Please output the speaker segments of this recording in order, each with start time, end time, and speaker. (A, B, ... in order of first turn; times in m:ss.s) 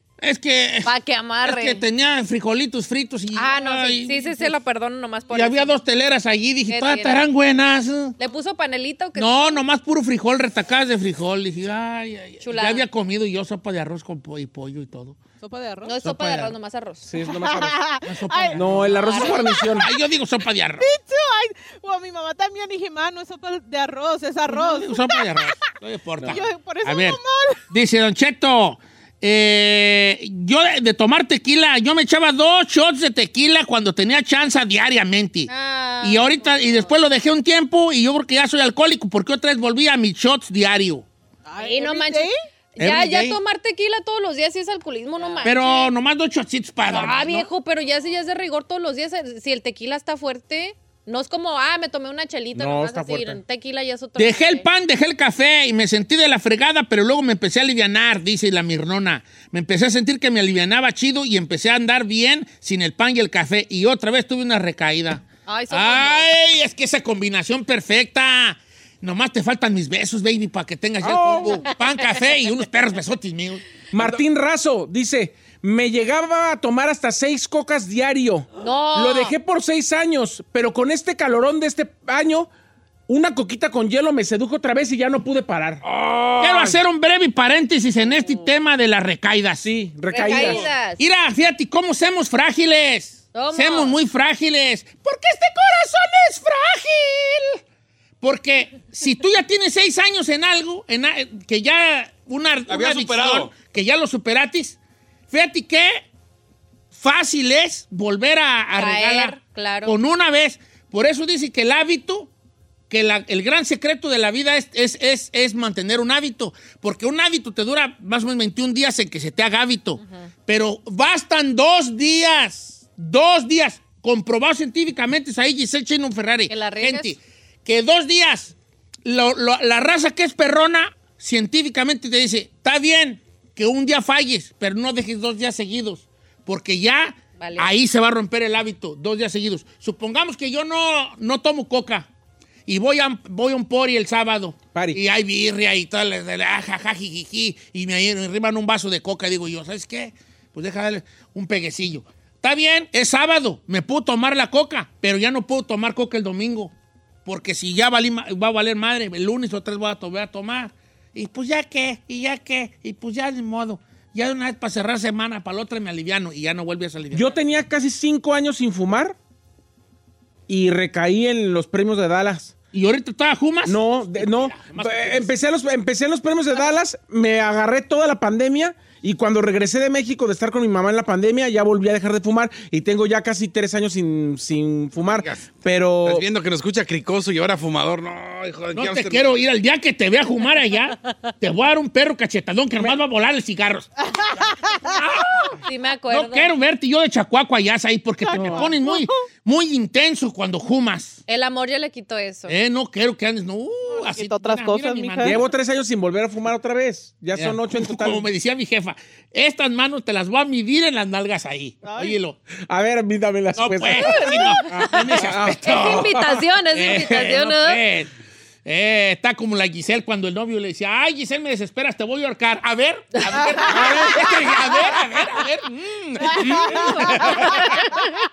0:00.2-0:00.9 A
0:00.8-0:01.8 B
0:01.4-0:04.6 A
0:03.4-0:05.7 B
0:05.3-0:08.2 A
0:06.7-0:07.2 B
0:08.2-0:09.6 B
0:09.2-0:15.2 A
0:12.4-0:12.8 B
0:15.4-0:16.0 C
0:15.8-0:17.1 B
0:16.0-0:16.5 A
0:17.0-0:17.8 D
0:17.2-0:18.6 C
0:18.0-0:20.9 A
0:18.6-0:19.9 D
0:18.9-0:19.7 B
0:20.8-0:25.6 C
0:24.5-0:35.5 A
0:26.3-0:27.6 C
0:35.5-0:36.9 B
0:36.0-0:41.1 A
0:41.5-0:42.4 C
0:41.6-0:45.9 B
0:42.8-0:43.4 E
0:45.2-0:45.4 C
0:45.4-0:47.5 A
0:46.9-0:54.7 B
0:52.6-0:53.4 D
0:54.2-1:14.2 A
1:05.5-1:06.3 B
1:11.0-1:11.6 D
1:13.9-1:22.5 D
1:18.6-1:19.4 B
1:23.1-1:25.8 D
1:25.8-1:26.8 E
1:26.4-1:29.7 A
1:29.6-1:30.6 D
1:30.1-1:31.0 B
1:30.3-1:30.7 E
1:31.0-1:37.6 A
1:33.3-1:34.0 B
1:38.2-1:44.8 A
1:42.7-1:43.5 E
1:45.3-1:46.1 A
1:46.9-1:52.3 A
1:48.8-1:50.0 B
1:52.9-2:08.5 A
2:00.0-2:00.3 B
2:06.5-2:07.2 B
2:09.0-2:22.1 A
2:17.4-2:17.7 B
2:22.7-2:36.7 A
2:24.7-2:25.0 D
2:37.2-2:47.3 A
2:47.1-2:49.2 D
2:50.5-2:52.5 D
2:52.7-2:55.3 A
2:53.7-3:06.3 D
3:05.0-3:09.3 E
3:08.7-3:13.9 A
3:14.0-3:15.0 C
3:14.8-3:15.6 A
3:15.6-3:16.5 B
3:16.1-3:21.2 A
3:18.2-3:19.2 C
3:18.3-3:18.7 D
3:21.3-3:22.6 B
3:22.5-3:25.4 A
3:23.9-3:25.4 C
3:25.2-3:28.3 D
3:27.4-3:32.4 A
3:31.8-3:32.2 C
3:32.7-3:36.3 D
3:33.6-3:36.2 A
3:33.9-3:35.0 B
3:35.6-3:37.8 B
3:36.7-3:38.1 A
3:38.6-3:48.0 A
3:43.6-3:44.2 B
3:43.7-3:44.4 D
3:46.3-3:47.6 C
3:46.8-3:48.0 B